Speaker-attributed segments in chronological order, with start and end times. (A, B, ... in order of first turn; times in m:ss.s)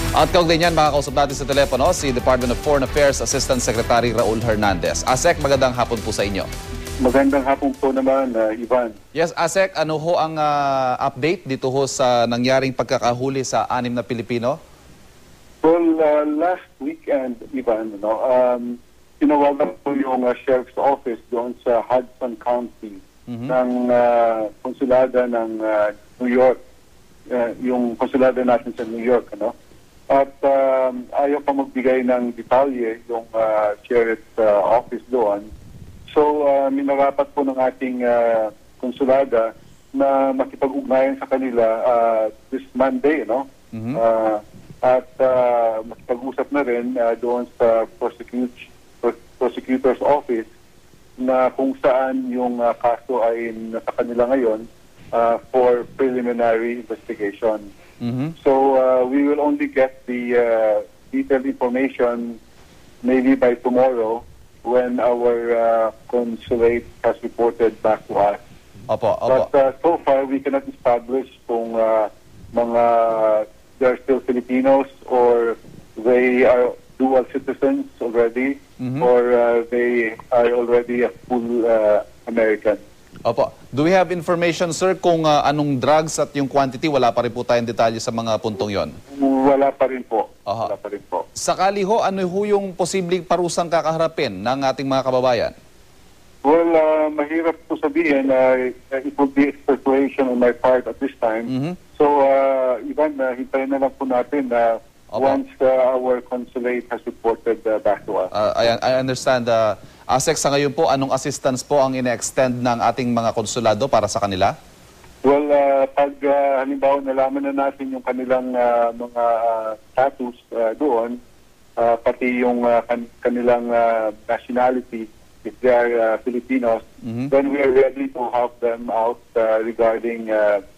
0:00.1-0:06.5 A
0:07.0-0:09.0 B
0:09.1-0:14.6 A
0:15.6-0:26.6 B
0:23.3-0:23.5 A
0:27.3-0:29.5 B
0:30.1-0:35.5 B
0:36.1-0:50.5 B
0:43.7-0:44.0 A
0:51.2-0:57.7 B
0:58.0-0:58.3 A
0:58.4-1:02.4 B
1:03.0-1:08.4 B
1:08.9-1:09.5 A
1:09.3-1:22.8 B
1:18.8-1:19.1 A
1:23.2-1:29.0 A
1:29.1-1:31.3 B
1:31.4-1:35.5 A
1:36.4-1:48.3 B
1:41.5-1:41.8 A
1:45.1-1:45.4 A
1:48.3-1:54.5 A
1:55.2-2:01.2 B
2:01.8-2:10.6 B
2:07.0-2:07.3 A